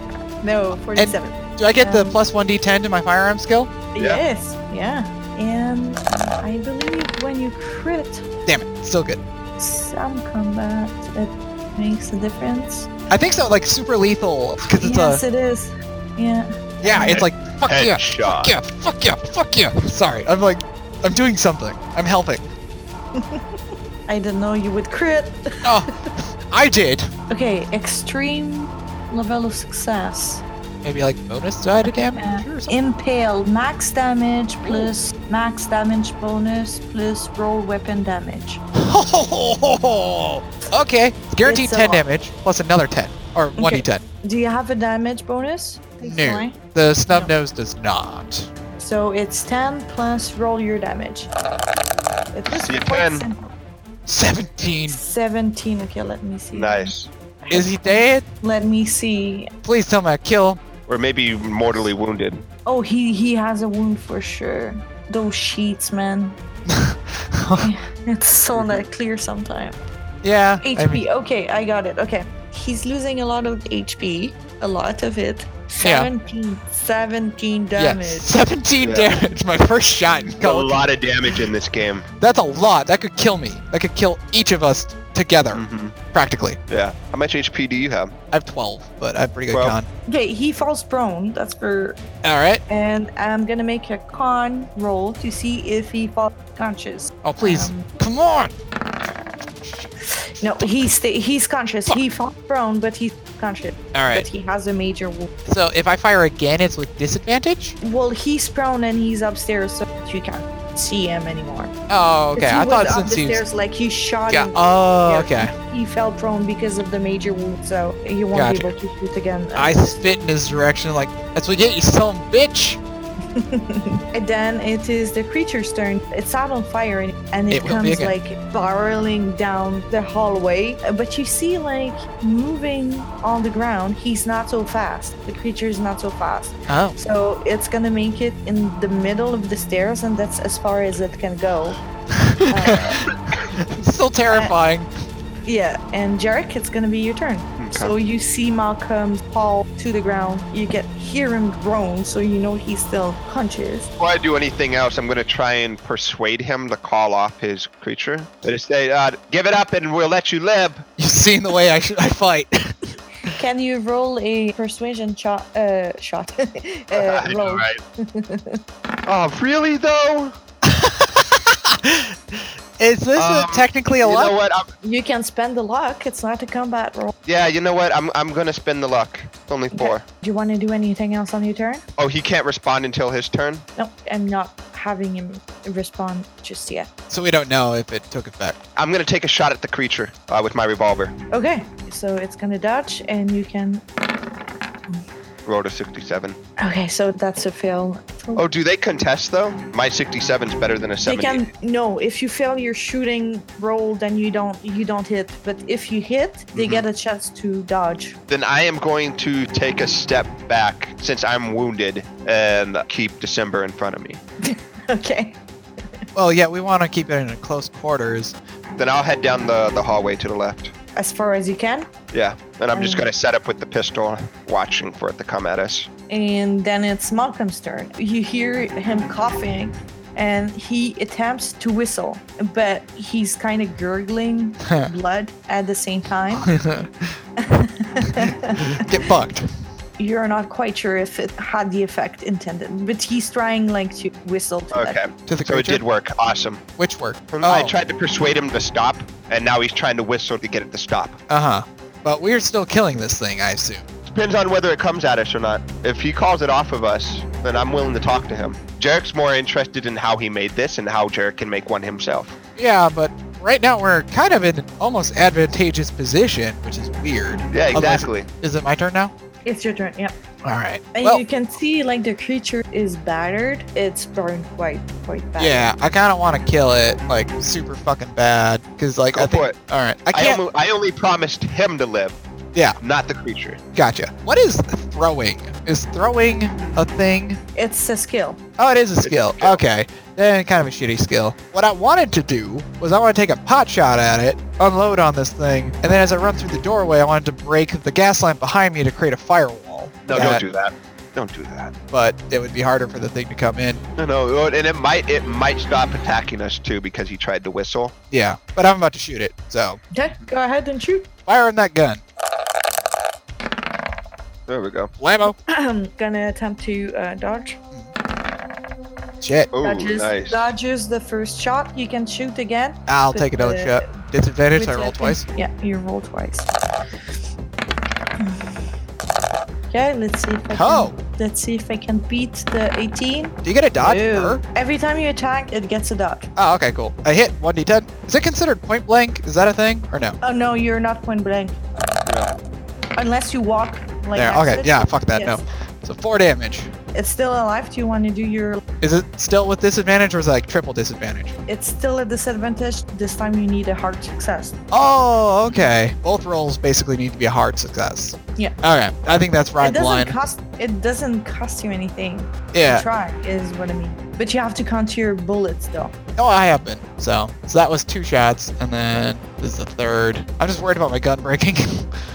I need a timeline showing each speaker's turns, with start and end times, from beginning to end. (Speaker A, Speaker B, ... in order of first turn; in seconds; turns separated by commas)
Speaker A: 0.4-2.2, Speaker B: 0.9-3.7, Speaker A: 3.9-8.2, Speaker B: 8.5-9.2, Speaker A: 9.6-12.9, Speaker B: 13.1-15.2, Speaker A: 14.7-17.2, Speaker B: 16.8-22.4, Speaker C: 17.1-18.5, Speaker A: 23.1-23.4, Speaker A: 24.1-25.7, Speaker B: 25.6-27.1, Speaker A: 27.3-30.4, Speaker B: 30.8-32.7, Speaker A: 31.9-38.6, Speaker B: 34.6-34.9, Speaker B: 38.7-44.0, Speaker A: 41.4-42.0, Speaker A: 43.6-46.6, Speaker B: 46.0-48.5, Speaker A: 48.8-51.3, Speaker A: 52.3-53.5, Speaker C: 52.7-53.3, Speaker B: 54.1-55.0, Speaker A: 54.9-59.5, Speaker C: 56.5-57.1, Speaker B: 57.5-58.2, Speaker B: 59.6-60.6, Speaker C: 60.9-62.4, Speaker A: 62.6-66.4, Speaker B: 66.7-67.7, Speaker A: 67.6-69.8, Speaker C: 68.5-68.8, Speaker B: 70.2-71.0, Speaker A: 70.6-78.3, Speaker B: 75.8-76.1, Speaker B: 77.8-80.8, Speaker C: 78.8-79.1, Speaker C: 80.4-82.1, Speaker B: 82.2-86.6, Speaker C: 85.5-85.9, Speaker C: 86.7-88.1, Speaker B: 88.3-89.9, Speaker A: 90.1-92.0, Speaker B: 92.2-92.6, Speaker A: 92.7-97.9, Speaker B: 97.2-98.5, Speaker B: 99.6-99.9, Speaker A: 100.2-105.3, Speaker B: 103.9-104.2, Speaker B: 105.5-107.8, Speaker A: 107.8-111.7, Speaker B: 111.9-113.4, Speaker A: 112.3-120.0, Speaker B: 114.3-115.5, Speaker B: 118.3-118.7, Speaker B: 119.5-122.8, Speaker A: 123.3-141.8, Speaker B: 127.5-128.1, Speaker B: 136.7-137.0, Speaker B: 142.1-144.9, Speaker A: 142.5-143.0, Speaker A: 145.4-153.9, Speaker C: 147.6-147.9, Speaker C: 154.0-160.8, Speaker B: 161.0-163.3, Speaker A: 163.3-168.6, Speaker C: 166.9-167.8, Speaker C: 169.1-170.3, Speaker B: 170.6-174.3, Speaker C: 173.2-174.7, Speaker A: 174.8-177.1, Speaker C: 177.2-180.0, Speaker A: 179.7-181.8, Speaker C: 182.0-183.6, Speaker A: 183.8-186.9, Speaker B: 187.1-188.6, Speaker C: 188.8-191.1, Speaker A: 191.3-193.8, Speaker C: 195.4-196.4, Speaker A: 196.6-198.4, Speaker C: 198.3-201.4, Speaker A: 201.0-208.1, Speaker C: 206.5-206.8, Speaker C: 208.3-214.2, Speaker A: 214.4-215.4, Speaker B: 216.1-218.3, Speaker C: 218.8-220.7, Speaker A: 220.9-221.9, Speaker C: 222.1-225.9, Speaker A: 222.7-223.1, Speaker A: 226.1-236.5, Speaker B: 236.4-237.1, Speaker A: 237.4-238.9, Speaker B: 238.1-239.5, Speaker A: 240.0-245.0, Speaker C: 244.7-246.6, Speaker B: 245.3-245.8, Speaker B: 246.8-247.7, Speaker C: 247.3-251.2, Speaker B: 251.3-253.8, Speaker C: 254.1-262.4, Speaker B: 262.6-269.1, Speaker C: 267.5-268.3, Speaker A: 269.4-270.1, Speaker B: 270.4-271.2, Speaker A: 270.9-275.7, Speaker B: 275.4-280.4, Speaker C: 279.1-279.6, Speaker C: 280.1-282.2, Speaker C: 282.8-283.6, Speaker B: 283.7-287.4, Speaker A: 287.6-288.4, Speaker B: 288.6-300.4, Speaker C: 289.0-289.6, Speaker C: 300.1-301.7, Speaker B: 301.9-303.8, Speaker C: 304.0-307.9, Speaker B: 308.1-309.8, Speaker A: 309.9-311.1, Speaker B: 311.3-312.0, Speaker C: 314.5-314.9, Speaker B: 315.0-315.4, Speaker A: 315.5-317.6, Speaker B: 319.2-319.5, Speaker C: 319.5-320.5, Speaker A: 319.6-323.9, Speaker B: 322.9-325.2, Speaker A: 324.5-326.7, Speaker A: 328.2-328.6, Speaker A: 329.7-336.3, Speaker B: 330.5-330.9, Speaker B: 333.4-334.4, Speaker B: 336.4-340.2, Speaker A: 340.2-341.6, Speaker C: 342.1-342.3, Speaker A: 342.9-345.4, Speaker B: 344.1-346.7, Speaker A: 346.9-348.6, Speaker B: 348.8-351.3, Speaker A: 351.5-354.6, Speaker B: 354.7-360.1, Speaker A: 359.6-365.9, Speaker B: 362.5-362.9, Speaker B: 366.2-371.9